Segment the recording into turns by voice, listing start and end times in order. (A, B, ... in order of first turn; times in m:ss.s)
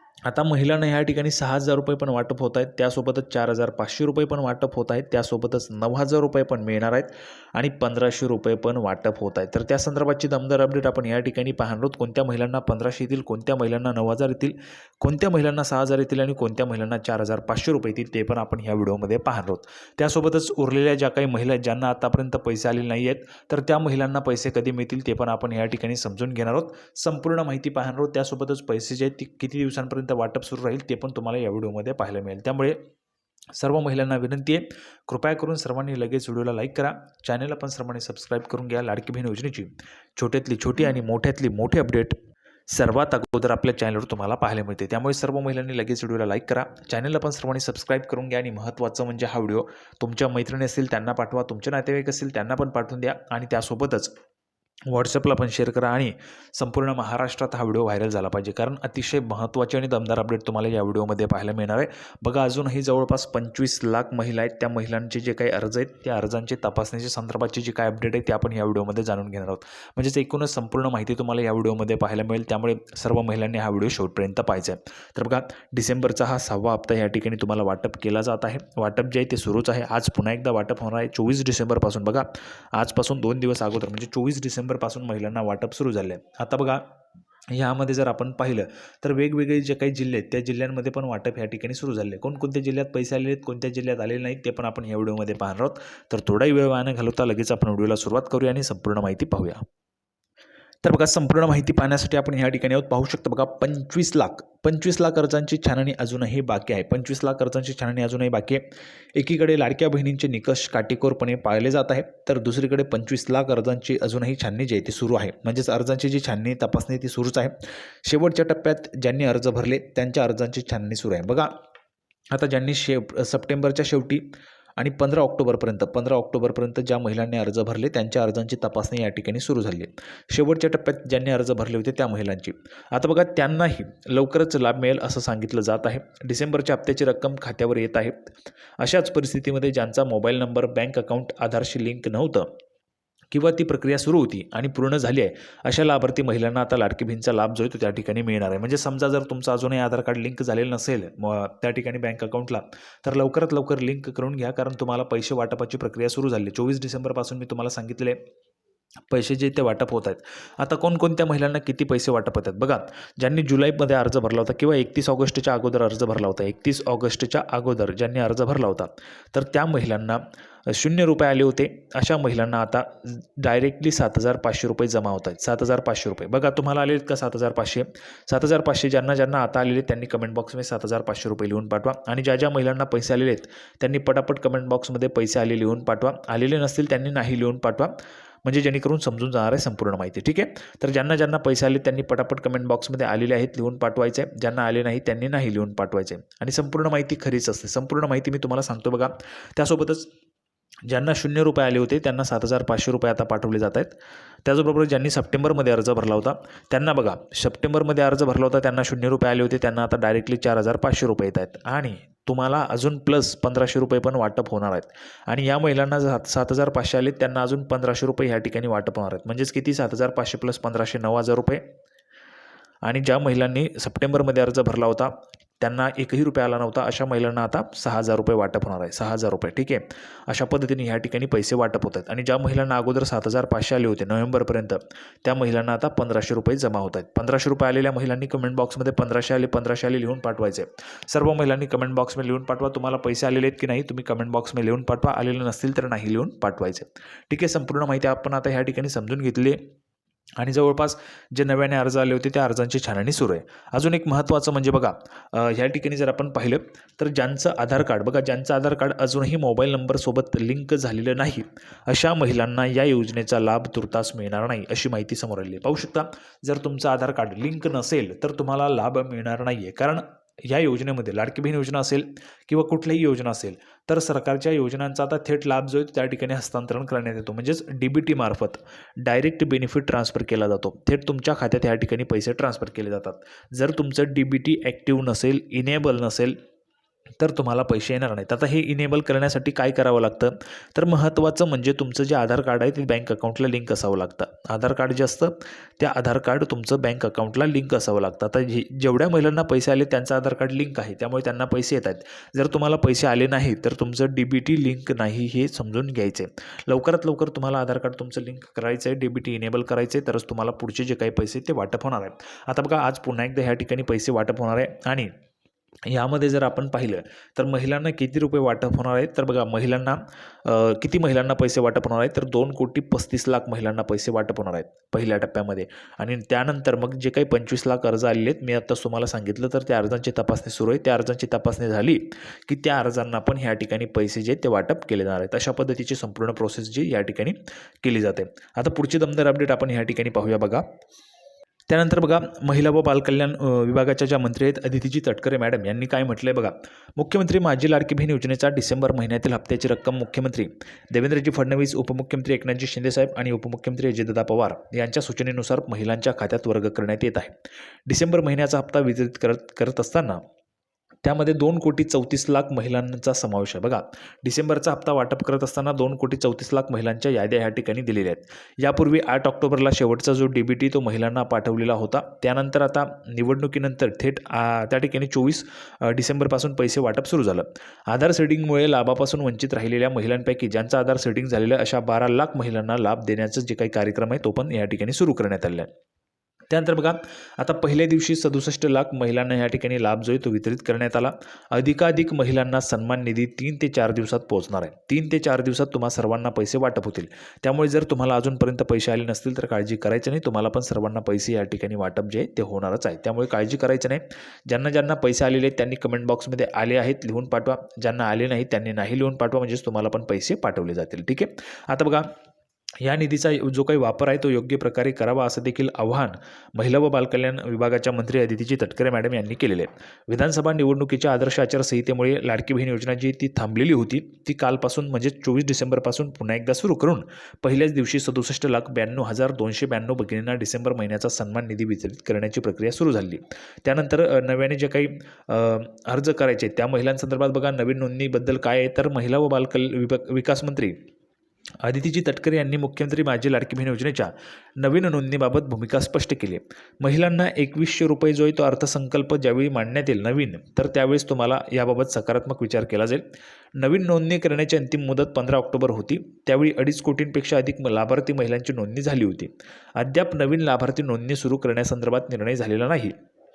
0:00.3-0:32.8 A
0:33.6-0:42.2 A
0:42.7-0:54.1 A
0:54.9-1:26.8 A
1:27.5-1:39.6 A
1:40.8-2:01.5 A
2:02.3-2:04.3 A
2:04.8-2:22.5 A
2:23.3-2:38.2 A
2:39.1-3:20.1 A
3:20.9-3:41.6 A
3:42.9-4:09.6 A
4:10.4-4:46.4 A
4:47.2-5:15.1 A
5:15.9-5:40.7 A
5:41.7-5:57.4 A
5:57.9-6:00.2 A
6:01.0-6:25.7 A
6:26.5-6:52.1 A
6:52.8-7:20.8 A
7:21.6-7:33.0 A
7:33.6-7:43.0 A